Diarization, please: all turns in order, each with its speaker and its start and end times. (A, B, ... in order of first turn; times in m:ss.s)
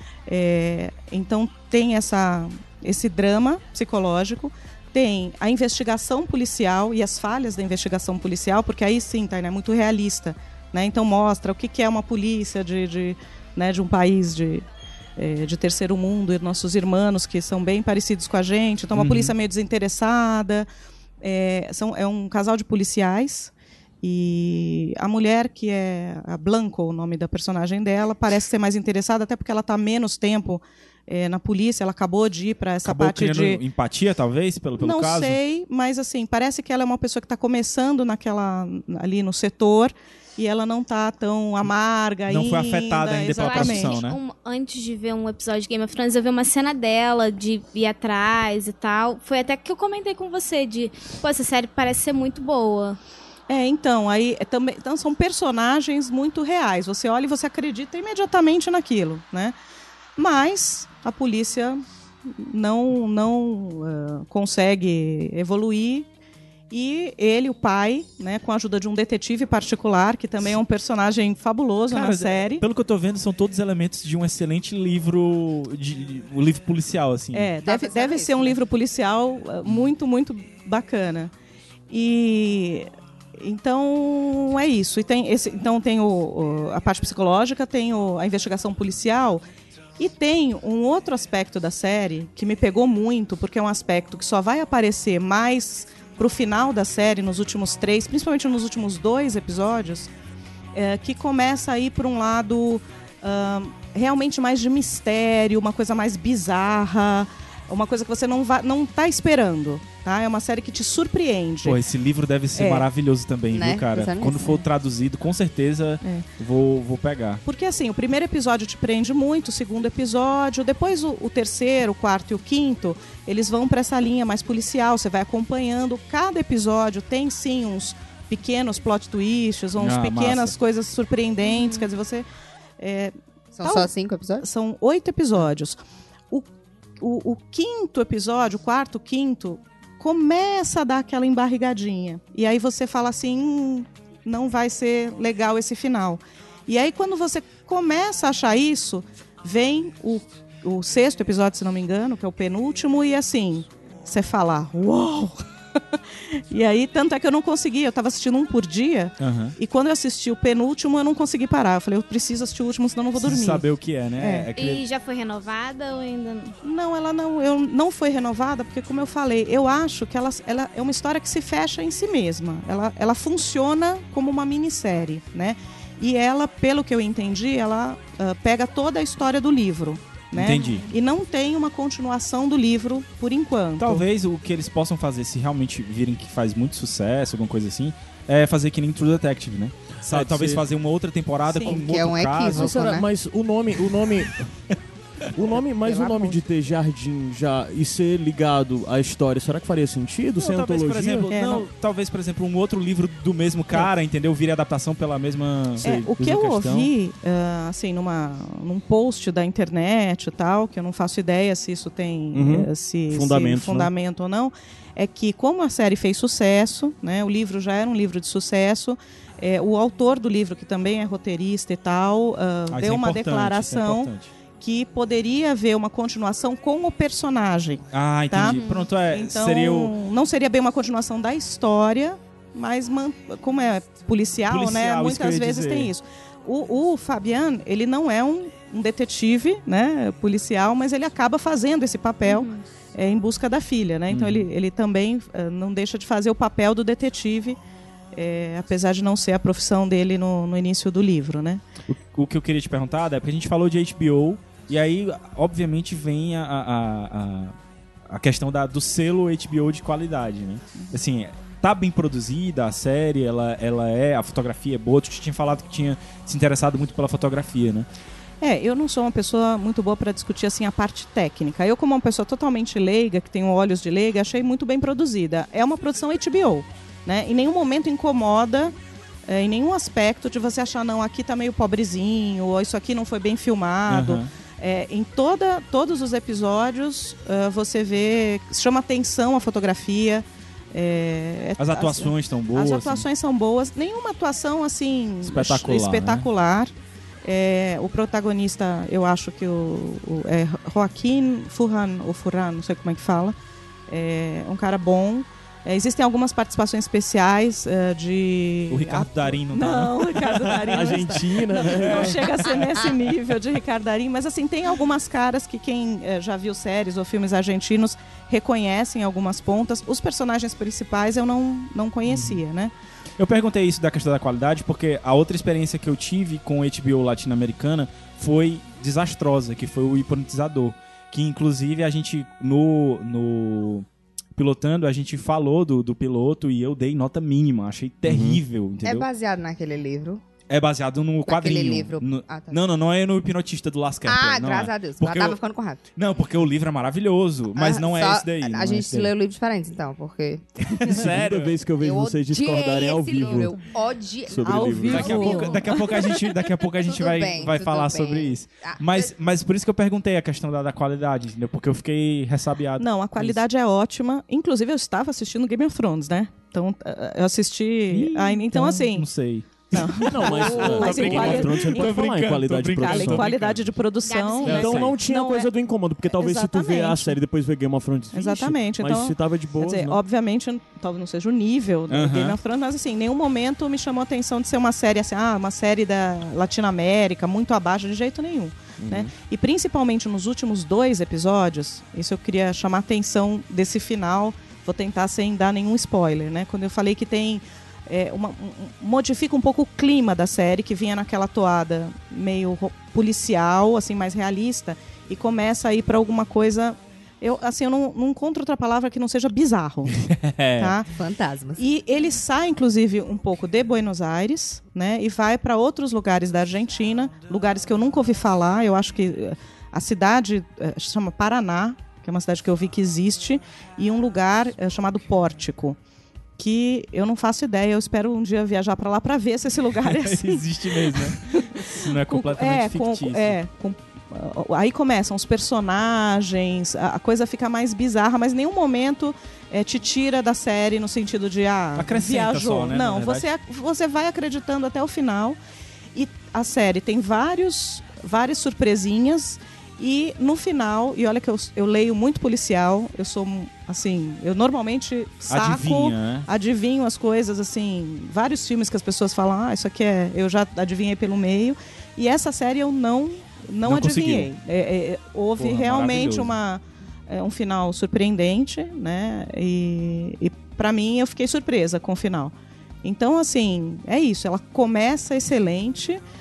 0:00.3-0:14.6 A
0:15.2-0:20.7 A
0:18.9-0:19.3 B
0:21.2-0:33.6 A
0:32.8-0:35.4 B
0:34.8-0:44.0 A
0:42.3-0:44.2 B
0:43.4-0:53.0 C
0:53.5-0:59.5 A
1:00.2-1:06.1 A
1:06.7-1:12.6 A
1:11.9-1:17.5 B
1:17.3-1:21.3 A
1:17.6-1:18.6 D
1:21.9-1:29.4 A
1:30.0-1:40.1 A
1:40.7-1:51.8 A
1:51.6-1:57.4 B
1:52.5-1:52.9 A
1:53.5-1:54.6 D
1:57.4-2:12.2 A
2:09.8-2:10.5 B
2:11.4-2:11.8 C
2:12.8-2:13.9 A
2:13.5-2:14.4 D
2:14.4-2:15.8 A
2:17.0-2:35.4 A
2:36.3-2:43.7 A
2:39.2-2:39.5 B
2:43.2-2:44.8 B
2:44.2-2:44.5 A
2:44.6-2:46.5 C
2:46.6-3:04.0 A
3:00.3-3:00.9 B
3:03.8-3:12.8 B
3:10.0-3:10.6 E
3:11.5-3:11.8 A
3:11.6-3:13.0 D
3:12.5-3:14.5 E
3:15.3-3:21.3 E
3:15.8-3:16.4 D
3:20.4-3:26.9 B
3:21.3-3:21.7 A
3:25.8-4:07.6 A
3:32.3-3:33.9 E
3:42.7-3:44.3 B
3:47.9-3:49.9 B
3:48.5-3:48.9 C
3:54.5-3:55.9 B
4:02.2-4:02.6 C
4:04.1-4:04.5 B
4:08.1-4:11.6 A
4:11.9-4:17.5 B
4:18.1-4:27.9 B
4:28.4-4:38.7 A
4:39.3-4:56.7 A
4:43.9-4:44.3 B
4:51.6-4:53.0 B
4:55.2-4:56.3 B
4:57.2-5:03.4 A
5:03.9-5:22.7 A
5:08.7-5:11.0 B
5:10.6-5:12.2 E
5:11.8-5:12.1 B
5:22.1-5:22.4 B
5:23.2-5:33.8 B
5:34.4-5:39.1 B
5:38.0-5:38.4 E
5:38.8-5:40.2 D
5:40.5-5:45.4 B
5:41.2-5:42.6 D
5:44.0-5:45.8 D
5:46.0-5:49.1 B
5:47.6-5:50.5 D
5:50.6-5:51.6 B
5:50.8-5:53.6 E
5:51.8-5:55.3 D
5:54.2-5:55.2 E
5:54.4-5:56.2 A
5:54.8-6:03.4 B
5:56.8-5:59.1 D
6:02.8-6:09.1 A
6:07.9-6:13.8 B
6:09.7-6:12.0 A
6:10.0-6:13.3 E
6:12.8-6:15.5 A
6:14.0-6:14.7 C
6:14.4-6:15.0 B
6:14.4-6:20.0 E
6:16.1-6:17.2 A
6:18.1-6:50.0 A
6:21.9-6:22.4 B
6:28.8-6:29.1 E
6:49.9-6:50.7 B
6:50.6-6:50.9 A
6:50.9-6:51.6 D
6:51.6-7:05.8 A
7:06.4-7:25.4 A
7:09.8-7:13.4 B
7:21.8-7:23.3 B
7:25.9-7:56.0 A
7:35.3-7:36.3 B
7:43.6-7:44.3 B
7:45.4-7:46.3 B